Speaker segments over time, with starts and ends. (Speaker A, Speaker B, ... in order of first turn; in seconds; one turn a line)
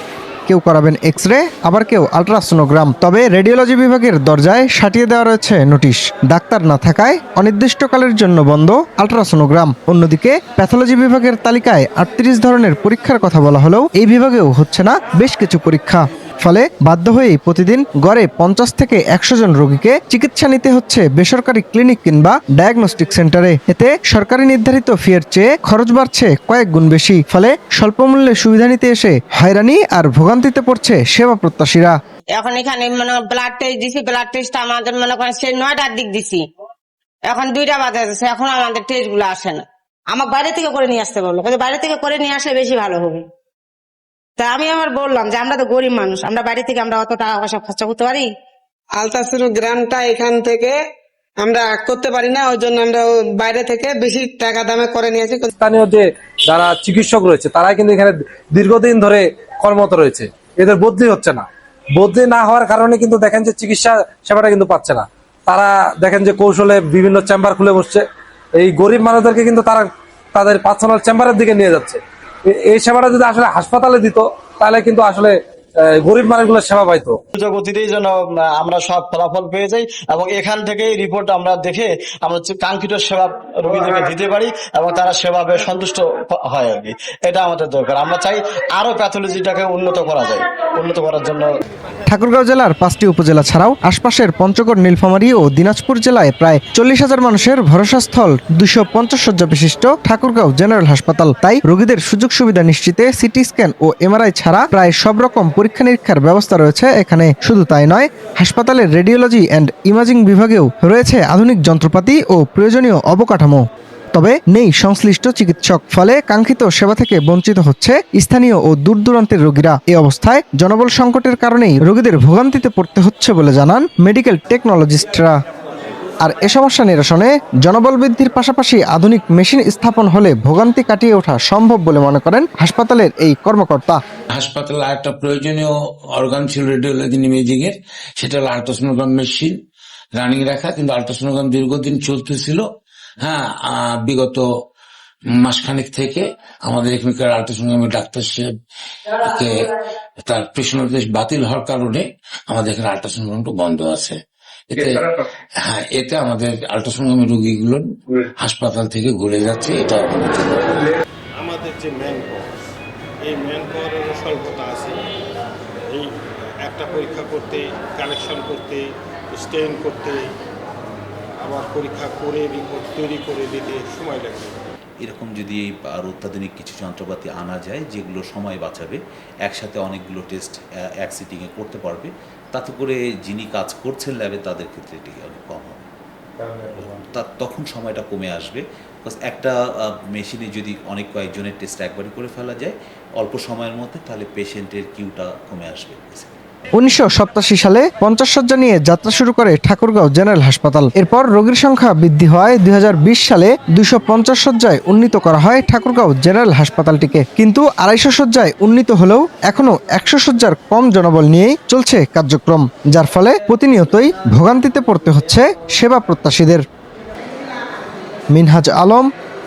Speaker A: 0.5-31.9
Speaker B: 32.4-36.4
Speaker B: 37.3-43.2
Speaker B: 44.4-48.3
Speaker C: 49.0-50.8
Speaker C: 51.4-55.5
Speaker D: 55.5-68.0
Speaker D: 68.5-77.2
Speaker E: 77.3-91.5
Speaker A: 92.1-125.3
Speaker A: 126.2-134.0
Speaker F: 134.3-139.6
Speaker F: 140.1-142.6
Speaker F: 143.2-144.4
Speaker F: 145.4-148.5
Speaker F: 149.2-154.2
Speaker F: 154.7-157.9
Speaker F: 158.4-160.9
Speaker G: 161.4-162.4
Speaker G: 163.2-165.0
Speaker G: 166.6-170.3
Speaker G: 171.4-174.5
Speaker H: 175.0-185.9
Speaker H: 186.6-196.4
Speaker A: 196.7-216.6
Speaker A: 218.3-219.1